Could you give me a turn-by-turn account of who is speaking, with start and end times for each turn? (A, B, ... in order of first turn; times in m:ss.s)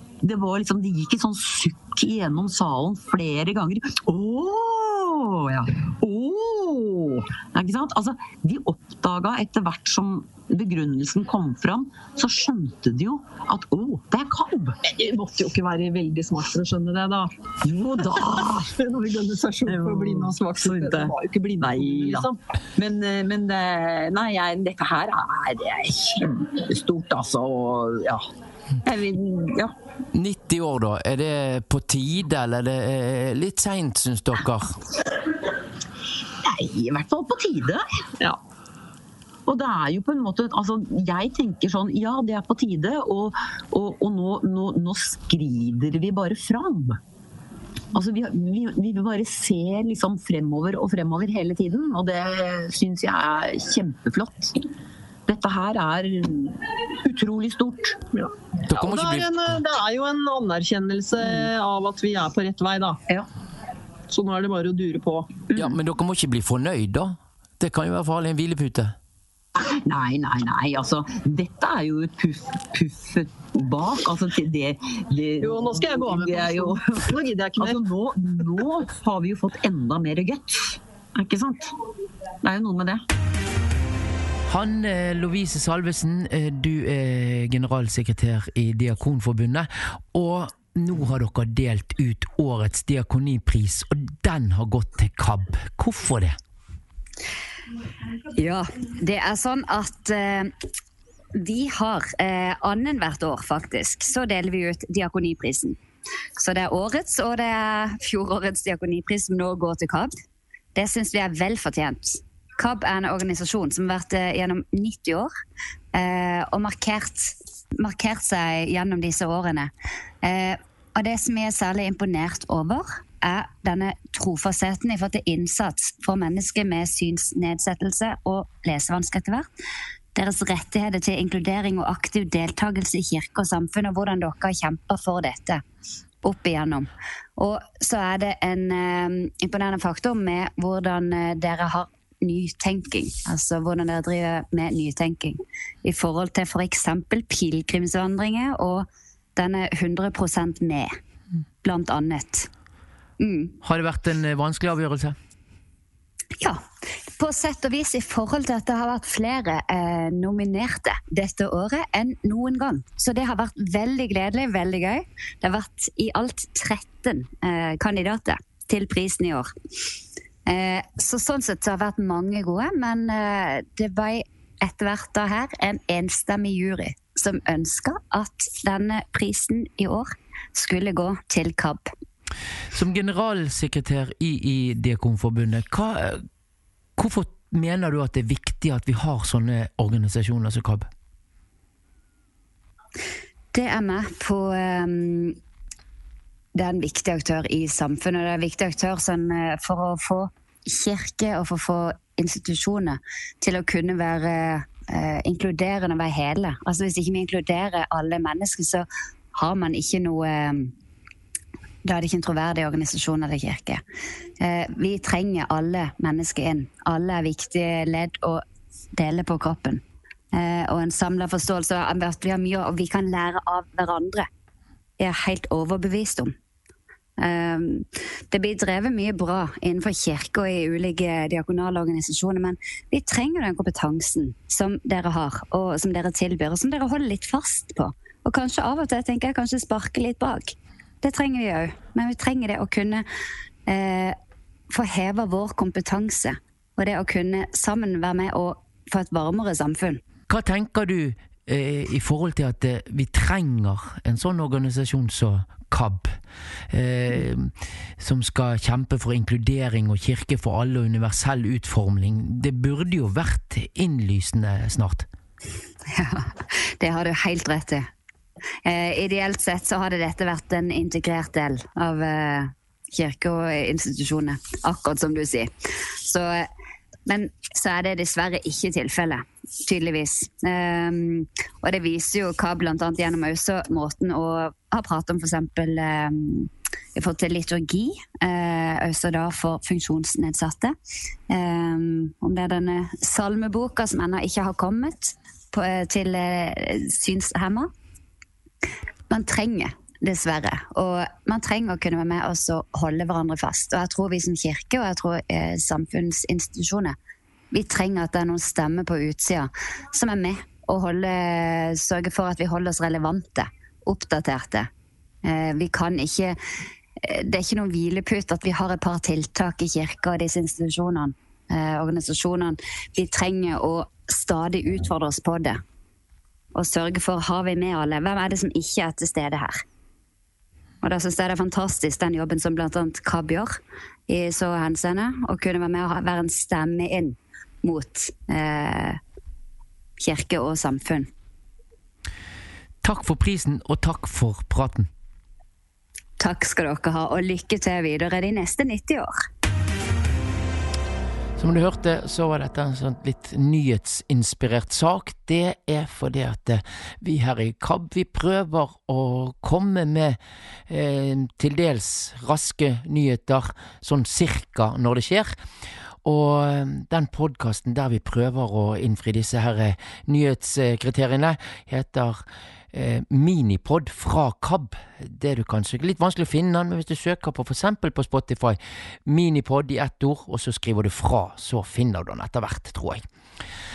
0:00.2-0:14.8 A
0:14.8-0:17.3 B
0:17.6-0:18.7 A
0:18.7-0:22.4 B
0:19.6-0:28.3 A
0:28.8-0:29.7 A
0:30.1-0:34.8 C
0:36.4-0:37.8 A
0:39.4-0:47.0 A
0:47.9-0:54.6 A
0:55.3-0:58.0 A
0:58.1-1:03.0 B
0:58.6-0:59.6 C
1:04.1-1:05.3 B
1:05.5-1:09.0 C
1:09.8-1:21.7 A
1:15.4-1:17.8 B
1:22.4-1:23.0 A
1:24.5-1:36.4 C
1:38.3-1:40.5 D
1:41.4-1:45.8 D
1:46.4-1:50.1 D
1:50.7-1:55.3 D
1:55.9-1:59.7 D
2:00.2-2:09.5 D
2:10.1-2:15.6 D
2:16.2-2:30.9 D
2:31.6-2:32.5 D
2:33.2-2:33.5 D
2:33.6-2:35.2 C
2:36.4-2:49.5 D
2:50.4-3:01.9 D
3:02.7-3:06.2 C
3:07.0-3:10.9 C
3:13.5-3:15.4 D
3:16.5-3:30.7 D
3:31.8-3:33.8 D
3:34.4-3:38.4 D
3:39.0-3:39.8 D
3:40.3-3:44.3 D
3:45.0-3:46.3 D
3:47.2-4:03.0 D
4:03.7-4:04.2 D
4:04.7-4:10.0 D
4:10.3-4:16.2 C
4:16.7-4:25.1 C
4:25.8-4:27.9 D
4:28.6-4:35.5 D
4:36.0-4:36.5 D
4:37.0-4:50.8 D
4:51.3-4:57.7 D
4:59.1-5:07.0 D
5:07.5-5:14.7 D
5:15.2-5:16.4 D
5:17.0-5:25.6 D
5:26.5-5:29.6 D
5:30.8-5:39.0 D
5:40.0-5:41.1 D
5:42.8-5:44.9 C
5:46.2-5:49.1 D
5:51.4-6:05.4 C
6:06.0-6:23.1 C